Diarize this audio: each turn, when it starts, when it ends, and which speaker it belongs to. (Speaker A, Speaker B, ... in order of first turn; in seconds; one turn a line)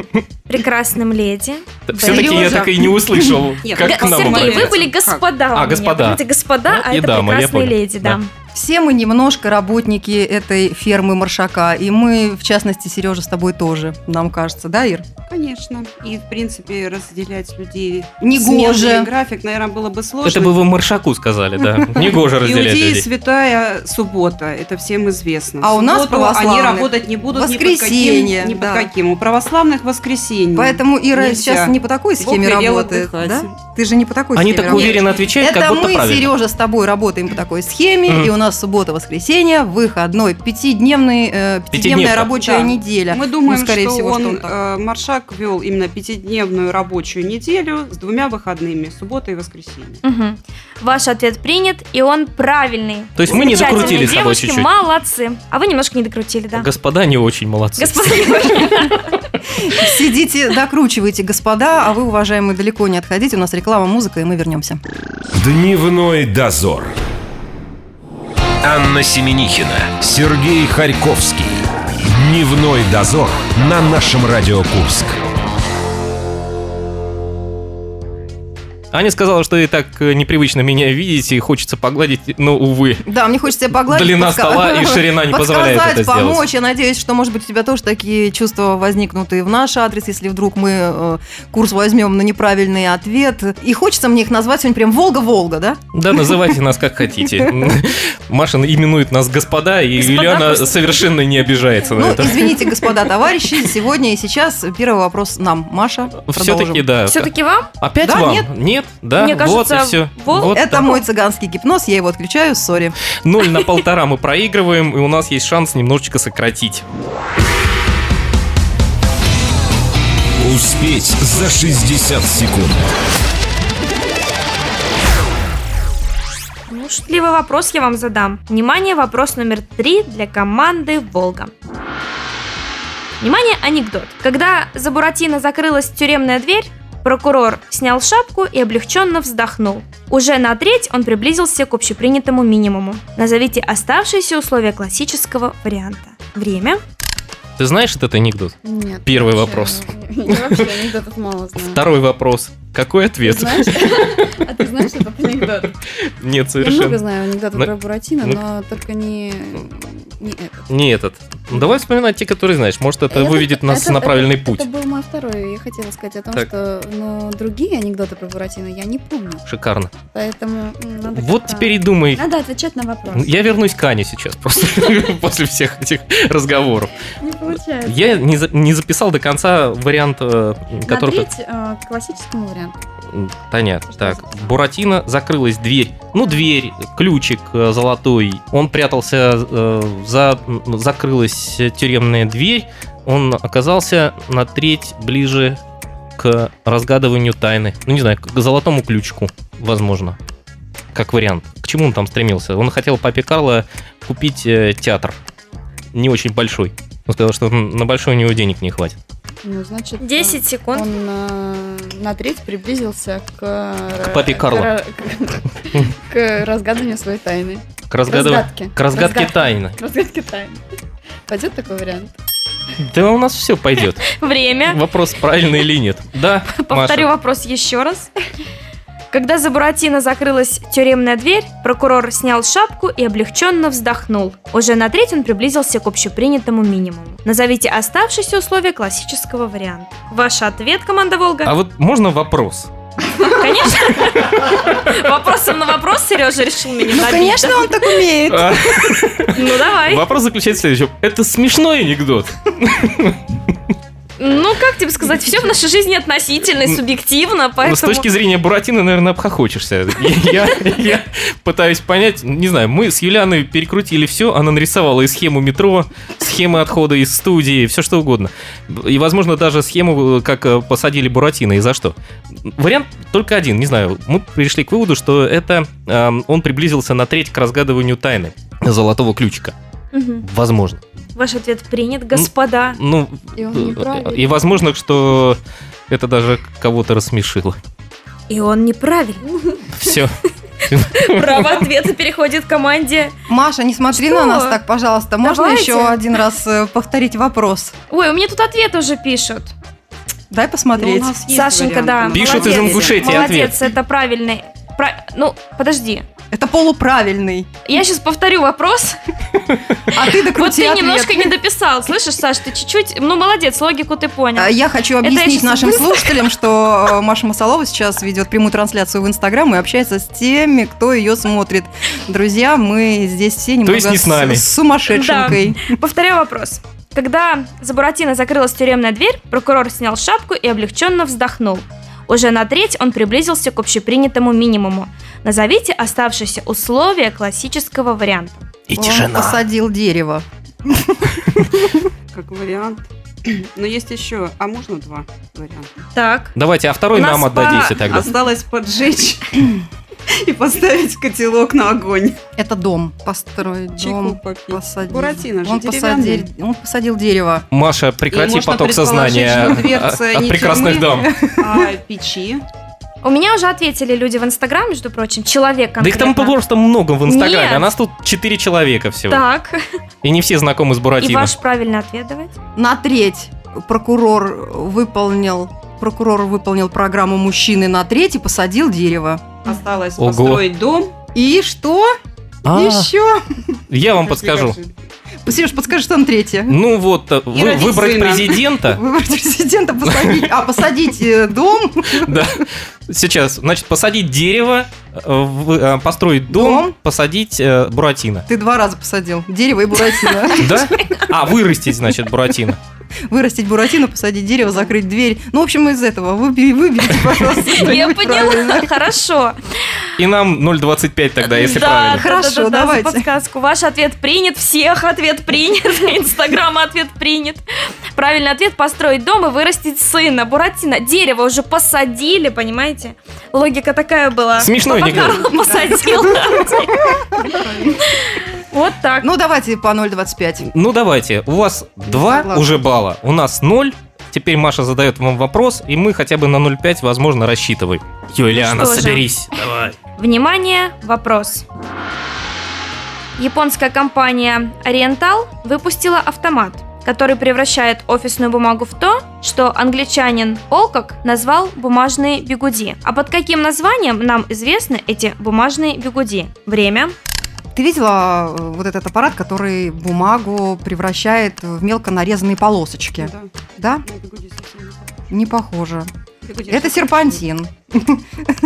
Speaker A: 0.5-2.7
Speaker B: 1.9-4.8
Speaker C: 2.0-2.9
Speaker D: 2.1-2.6
Speaker D: 3.6-5.3
Speaker A: 3.8-8.3
Speaker B: 5.5-8.2
Speaker C: 8.5-15.1
Speaker D: 15.3-20.6
Speaker C: 18.2-19.1
Speaker B: 20.2-23.1
Speaker D: 22.3-33.5
Speaker C: 25.6-28.9
Speaker C: 30.6-44.5
Speaker B: 34.4-36.3
Speaker B: 38.1-38.3
Speaker B: 41.7-42.4
Speaker D: 42.4-50.0
Speaker A: 50.0-56.7
Speaker B: 53.2-54.7
Speaker D: 53.5-54.1
Speaker B: 56.5-58.9
Speaker A: 57.8-59.2
Speaker C: 59.7-64.8
Speaker E: 65.3-66.9
Speaker E: 68.6-75.2
Speaker B: 78.9-83.1
Speaker C: 83.1-96.4
Speaker B: 83.9-86.4
Speaker B: 95.9-102.9
Speaker A: 100.0-101.0
Speaker C: 102.0-106.8
Speaker B: 106.2-111.0
Speaker A: 107.1-107.7
Speaker C: 108.0-108.5
Speaker A: 109.2-110.6
Speaker C: 110.5-113.0
Speaker B: 113.2-116.8
Speaker E: 120.4-122.8
Speaker A: 126.7-131.5
Speaker A: 133.2-146.8
Speaker B: 147.6-150.8
Speaker F: 148.6-151.8
Speaker B: 151.6-154.5
Speaker F: 153.2-155.8
Speaker B: 156.0-157.0
Speaker F: 156.6-160.7
Speaker B: 160.7-164.7
Speaker F: 163.1-169.4
Speaker B: 169.5-169.9
Speaker F: 170.1-173.4
Speaker B: 171.2-172.2
Speaker B: 173.1-176.9
Speaker F: 177.2-178.2
Speaker B: 177.8-181.3
Speaker F: 180.8-182.8
Speaker B: 183.1-195.6
Speaker F: 183.9-184.6
Speaker B: 196.2-200.2
Speaker B: 200.9-205.2
Speaker B: 205.9-209.0
Speaker F: 209.4-220.6
Speaker A: 210.0-210.9
Speaker B: 214.1-214.7
Speaker B: 217.9-219.8
Speaker F: 221.3-222.1
Speaker B: 222.8-227.1
Speaker A: 224.1-224.8
Speaker A: 226.5-228.1
Speaker A: 229.1-241.5
Speaker B: 241.5-242.7
Speaker A: 243.2-248.0
Speaker B: 244.1-244.9
Speaker C: 246.9-248.9
Speaker B: 248.3-253.2
Speaker A: 249.3-250.1
Speaker A: 254.2-258.1
Speaker B: 257.6-271.9
Speaker B: 272.4-279.5
Speaker A: 279.9-280.3
Speaker B: 280.2-280.8
Speaker A: 281.1-282.8
Speaker B: 282.1-287.6
Speaker F: 283.4-284.5
Speaker A: 288.3-289.2
Speaker B: 289.7-290.1
Speaker B: 290.7-291.6
Speaker A: 290.9-293.1
Speaker C: 293.3-297.7
Speaker A: 293.9-294.6
Speaker A: 295.2-296.0
Speaker A: 297.9-299.5
Speaker C: 300.3-301.2
Speaker D: 300.8-303.4
Speaker A: 301.3-306.1
Speaker B: 302.1-303.6
Speaker C: 306.3-307.5
Speaker A: 307.6-309.0
Speaker C: 309.9-311.3
Speaker A: 310.2-316.3
Speaker C: 314.4-325.7
Speaker B: 323.6-324.4
Speaker A: 324.9-338.6
Speaker B: 338.7-339.4
Speaker C: 338.7-341.6
Speaker D: 342.1-345.7
Speaker A: 345.9-346.4
Speaker B: 346.4-348.1
Speaker A: 346.9-347.8
Speaker D: 347.4-352.2
Speaker C: 352.4-357.4
Speaker D: 353.8-356.3
Speaker B: 357.5-361.1
Speaker D: 358.1-362.4
Speaker C: 361.0-361.7
Speaker A: 363.0-366.4
Speaker B: 365.8-369.2
Speaker A: 367.1-367.7
Speaker A: 369.1-369.6
Speaker B: 370.0-371.4
Speaker A: 371.0-372.3
Speaker C: 372.6-379.4
Speaker D: 379.4-380.9
Speaker B: 380.0-380.4
Speaker C: 381.1-381.9
Speaker B: 382.4-382.9
Speaker C: 382.5-383.2
Speaker B: 383.7-384.6
Speaker D: 384.0-384.7
Speaker C: 385.2-386.5
Speaker B: 386.5-388.8
Speaker D: 387.3-388.4
Speaker C: 388.6-392.2
Speaker B: 389.9-390.3
Speaker B: 391.9-398.3
Speaker C: 396.3-396.7
Speaker C: 398.3-400.7
Speaker B: 400.4-402.6
Speaker A: 400.8-401.1
Speaker C: 403.1-408.7
Speaker A: 407.4-409.6
Speaker B: 410.0-412.1
Speaker A: 411.2-417.4
Speaker C: 411.9-413.1
Speaker A: 417.9-426.9
Speaker B: 424.4-425.3
Speaker D: 424.8-425.8
Speaker D: 427.3-427.8
Speaker A: 427.8-429.1
Speaker C: 429.0-430.5
Speaker B: 430.5-439.8
Speaker C: 432.1-432.4
Speaker A: 438.3-439.1
Speaker A: 439.9-441.4
Speaker A: 443.2-456.9
Speaker C: 457.6-463.8
Speaker D: 463.0-463.3
Speaker D: 463.8-465.0
Speaker C: 465.1-465.9
Speaker D: 466.2-467.2
Speaker C: 466.5-468.0